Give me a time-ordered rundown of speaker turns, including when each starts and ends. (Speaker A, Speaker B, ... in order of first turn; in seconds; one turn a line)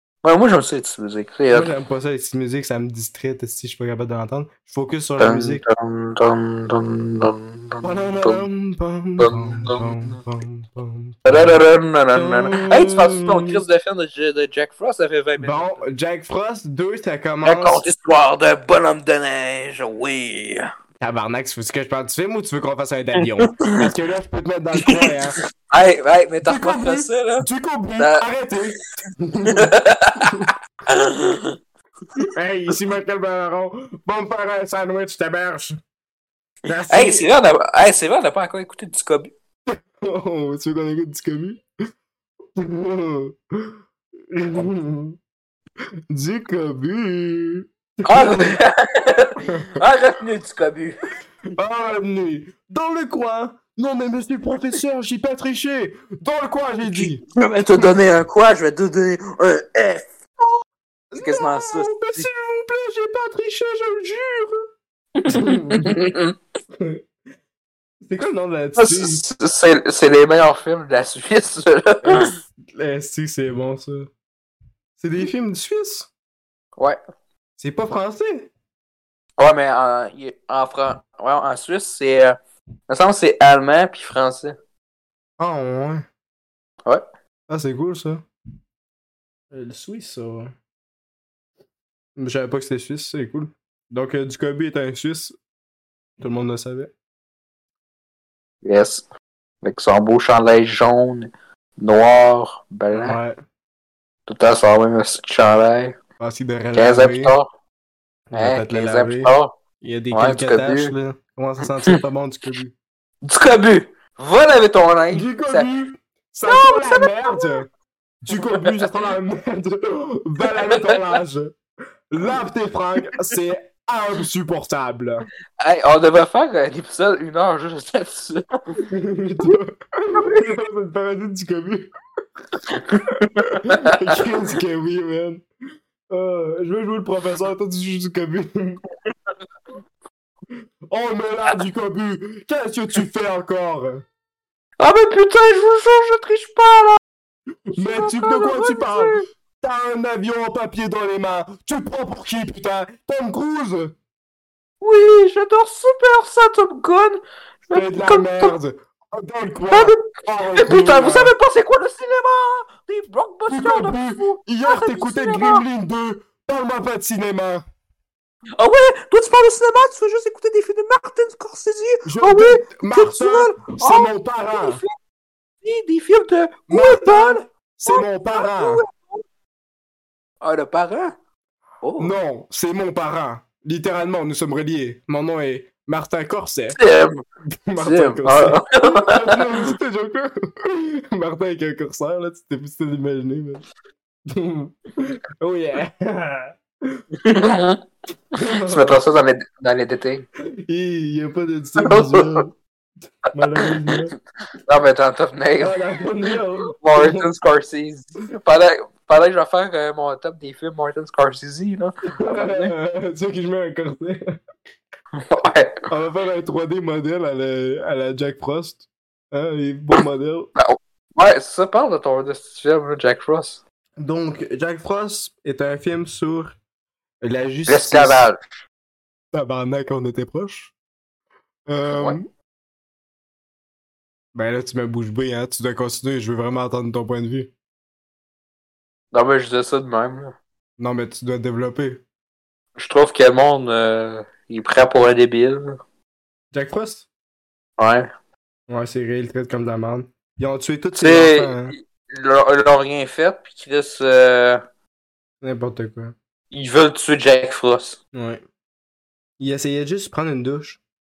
Speaker A: 0.2-1.7
Speaker B: 1.5-5.6
Speaker A: 5.2-8.4
Speaker B: 7.8-11.6
Speaker A: 9.2-10.2
Speaker A: 11.2-15.8
Speaker B: 12.1-13.6
Speaker B: 15.4-17.8
Speaker A: 17.4-20.7
Speaker B: 21.0-25.4
Speaker A: 23.2-23.9
Speaker A: 24.8-25.1
Speaker A: 25.7-27.5
Speaker B: 26.4-30.5
Speaker A: 28.0-28.2
Speaker A: 29.5-31.5
Speaker B: 32.2-35.8
Speaker B: 36.7-37.3
Speaker A: 36.9-39.3
Speaker B: 39.7-41.6
Speaker B: 42.5-43.8
Speaker B: 44.3-45.2
Speaker B: 46.1-48.6
Speaker A: 48.1-51.0
Speaker B: 49.5-49.8
Speaker B: 51.6-57.2
Speaker A: 56.8-60.0
Speaker B: 61.1-64.6
Speaker A: 61.2-62.3
Speaker A: 65.2-66.3
Speaker B: 65.3-66.0
Speaker B: 68.0-69.2
Speaker A: 68.8-72.3
Speaker B: 72.0-74.1
Speaker B: 75.0-76.1
Speaker B: 77.6-78.5
Speaker A: 79.4-84.5
Speaker B: 85.4-86.0
Speaker B: 87.5-88.2
Speaker B: 89.5-90.5
Speaker B: 92.2-95.3
Speaker B: 96.2-96.9
Speaker A: 98.6-99.0
Speaker A: 99.6-103.2
Speaker B: 102.9-103.4
Speaker A: 104.3-106.0
Speaker B: 106.2-107.3
Speaker A: 106.7-107.5
Speaker B: 108.3-112.7
Speaker A: 108.3-109.6
Speaker A: 110.1-110.9
Speaker A: 113.2-115.7
Speaker B: 115.1-117.7
Speaker A: 116.5-117.5
Speaker B: 118.2-121.5
Speaker A: 118.3-118.8
Speaker A: 120.4-121.1
Speaker B: 122.1-125.2
Speaker A: 125.6-128.4
Speaker B: 128.8-131.9
Speaker A: 130.1-130.5
Speaker A: 132.7-134.2
Speaker B: 133.4-135.4
Speaker B: 136.1-138.8
Speaker B: 140.9-144.1
Speaker A: 144.8-147.0
Speaker B: 147.7-153.9
Speaker A: 147.8-149.2
Speaker A: 154.8-158.5
Speaker B: 157.7-161.3
Speaker A: 159.7-165.6
Speaker B: 163.5-167.6
Speaker A: 168.6-174.9
Speaker B: 172.0-174.8
Speaker A: 175.6-179.2
Speaker B: 176.7-178.8
Speaker A: 180.4-181.1
Speaker A: 181.8-182.1
Speaker B: 182.0-186.8
Speaker A: 186.8-187.2
Speaker B: 187.5-193.7
Speaker A: 187.8-189.7
Speaker B: 194.3-197.0
Speaker A: 197.2-197.8
Speaker B: 198.3-199.0
Speaker A: 198.6-200.3
Speaker B: 200.7-202.5
Speaker A: 201.8-202.4
Speaker B: 203.3-204.1
Speaker A: 203.6-203.9
Speaker A: 204.7-205.8
Speaker B: 205.6-207.3
Speaker A: 206.8-212.7
Speaker B: 212.2-214.4
Speaker A: 215.1-215.8
Speaker B: 215.9-220.5
Speaker A: 220.6-223.6
Speaker B: 224.0-226.6
Speaker B: 227.2-228.3
Speaker A: 227.7-228.4
Speaker B: 229.3-230.7
Speaker B: 231.7-232.2
Speaker A: 231.9-232.2
Speaker B: 234.3-237.5
Speaker A: 239.1-240.3
Speaker B: 240.8-242.0
Speaker A: 242.8-245.8
Speaker B: 246.5-247.1
Speaker A: 247.8-248.1
Speaker B: 248.7-251.7
Speaker A: 251.0-254.6
Speaker B: 255.4-256.1
Speaker A: 256.5-258.0
Speaker B: 258.1-258.4
Speaker B: 259.4-260.8